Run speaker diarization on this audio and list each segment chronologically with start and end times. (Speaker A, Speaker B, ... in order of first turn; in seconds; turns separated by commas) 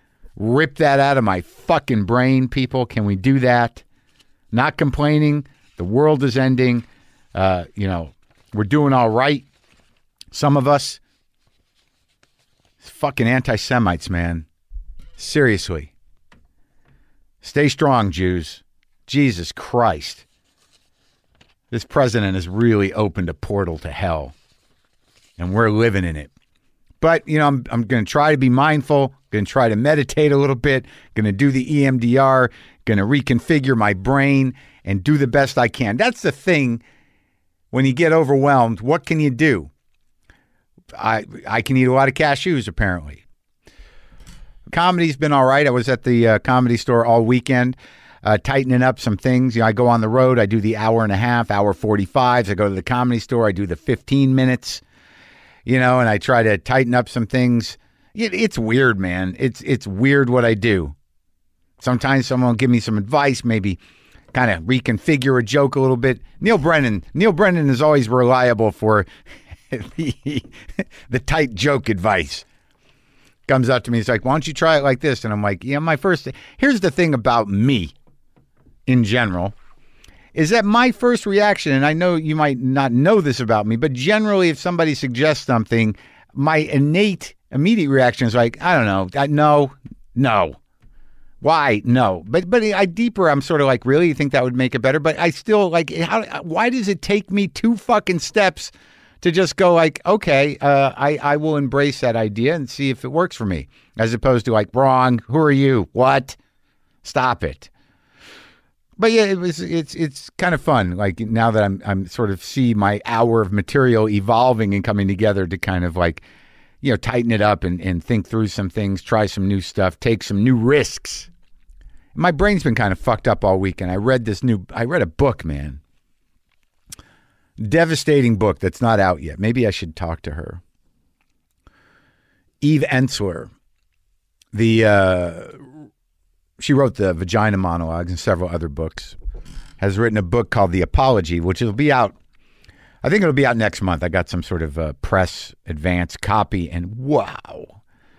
Speaker A: 0.4-3.8, Speaker A: 4.5-9.5, Speaker A: 10.3-11.0, Speaker A: 12.8-14.5, Speaker A: 15.2-15.9, Speaker A: 17.4-20.2, Speaker A: 21.7-24.3, Speaker A: 25.4-26.3, Speaker A: 27.0-36.8, Speaker A: 37.7-39.7, Speaker A: 41.0-43.2, Speaker A: 44.7-54.8, Speaker A: 55.6-61.0, Speaker A: 61.8-63.8, Speaker A: 64.3-69.1, Speaker A: 69.7-72.5, Speaker A: 73.5-77.9, Speaker A: 78.9-79.5, Speaker A: 80.3-90.6, Speaker A: 91.4-106.4, Speaker A: 107.0-107.7, Speaker A: 109.0-116.2, Speaker A: 116.8-121.3, Speaker A: 122.2-125.8, Speaker A: 127.6-130.6, Speaker A: 132.6-133.5, Speaker A: 134.5-135.6, Speaker A: 136.6-139.2, Speaker A: 139.8-142.2, Speaker A: 143.0-147.8